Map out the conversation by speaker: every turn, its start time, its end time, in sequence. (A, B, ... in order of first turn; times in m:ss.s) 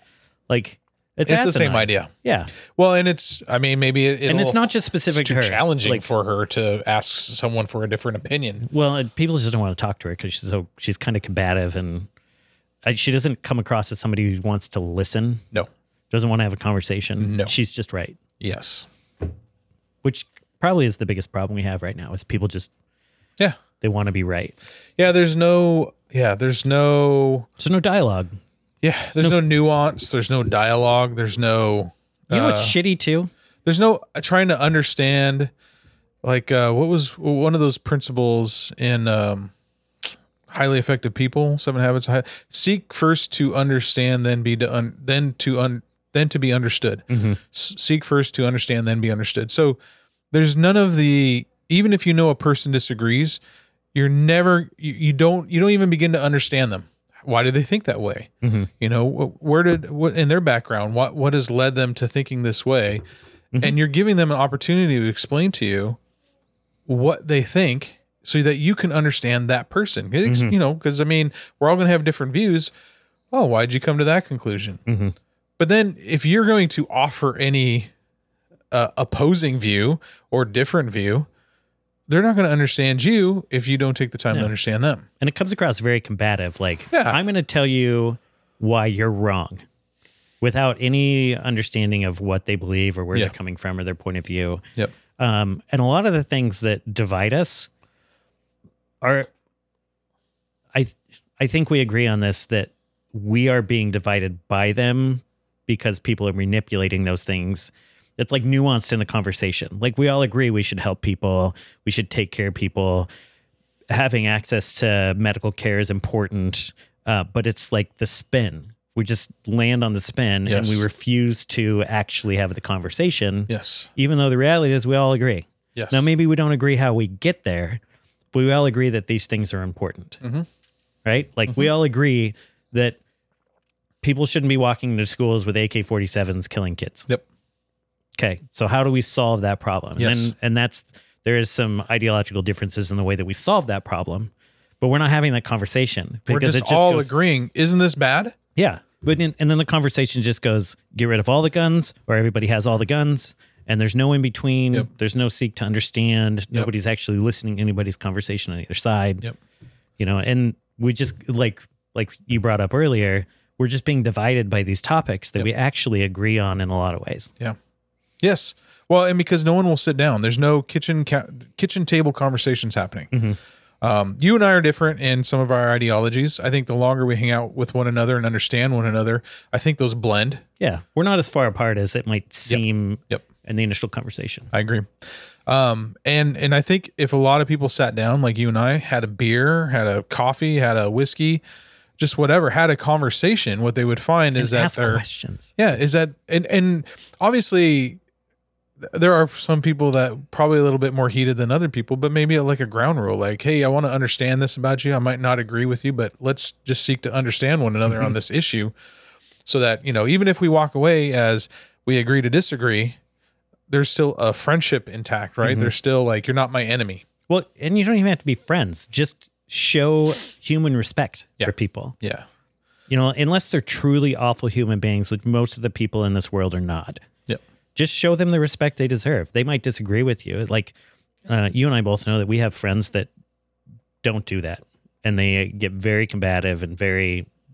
0:00.5-0:02.5 A
0:01.2-0:08.6 B
0:04.2-0:06.0 A
0:08.6-0:12.1 A
0:12.8-0:15.4 A
0:16.1-0:18.2 A
0:17.2-0:17.5 B
0:18.4-0:18.9 B
0:20.0-0:22.7 A
0:23.8-0:24.5 A
0:25.0-0:27.5 B
0:27.6-0:28.4 A
0:28.8-0:32.8 B
0:29.2-0:29.5 A
0:32.3-0:33.3 A
0:33.6-0:35.5 B
0:36.2-0:39.5 B
0:40.5-0:49.8 B
0:47.1-0:47.4 A
0:50.3-0:53.4 B
0:53.9-1:03.0 B
0:58.4-0:58.7 A
1:03.6-1:06.0 B
1:06.9-1:12.7 B
1:10.2-1:10.6 A
1:13.3-1:14.8 B
1:14.8-1:15.1 A
1:15.6-1:17.9 B
1:18.7-1:21.3 B
1:22.1-1:25.0 B
1:25.2-1:29.6 A
1:26.9-1:27.2 B
1:30.4-1:34.6 A
1:35.2-1:37.7 A
1:39.0-1:39.3 A
1:40.7-1:53.1 A
1:53.9-2:07.8 A
2:00.4-2:00.8 B
2:03.5-2:03.9 B
2:05.7-2:06.1 B
2:08.3-2:10.2 A
2:10.2-2:10.5 B
2:11.0-2:13.0 A
2:14.0-2:17.1 A
2:18.2-2:27.1 A
2:20.0-2:20.3 B
2:26.3-2:28.3 B
2:28.6-2:39.3 A
2:40.0-2:47.3 A
2:48.2-2:53.1 B
2:53.1-2:53.4 A
2:53.8-3:00.4 B
3:00.6-3:04.5 A
3:02.5-3:03.2 B
3:04.5-3:04.9 B
3:05.4-3:11.4 B
3:12.0-3:15.0 B
3:14.4-3:15.5 A
3:15.6-3:18.0 B
3:18.8-3:28.7 B
3:29.4-3:33.0 B
3:33.7-3:37.0 B
3:35.4-3:35.7 A
3:37.3-3:42.0 A
3:41.4-3:42.2 B
3:42.9-3:47.0 A
3:47.7-3:50.7 A
3:51.3-3:53.1 A
3:54.0-3:57.3 A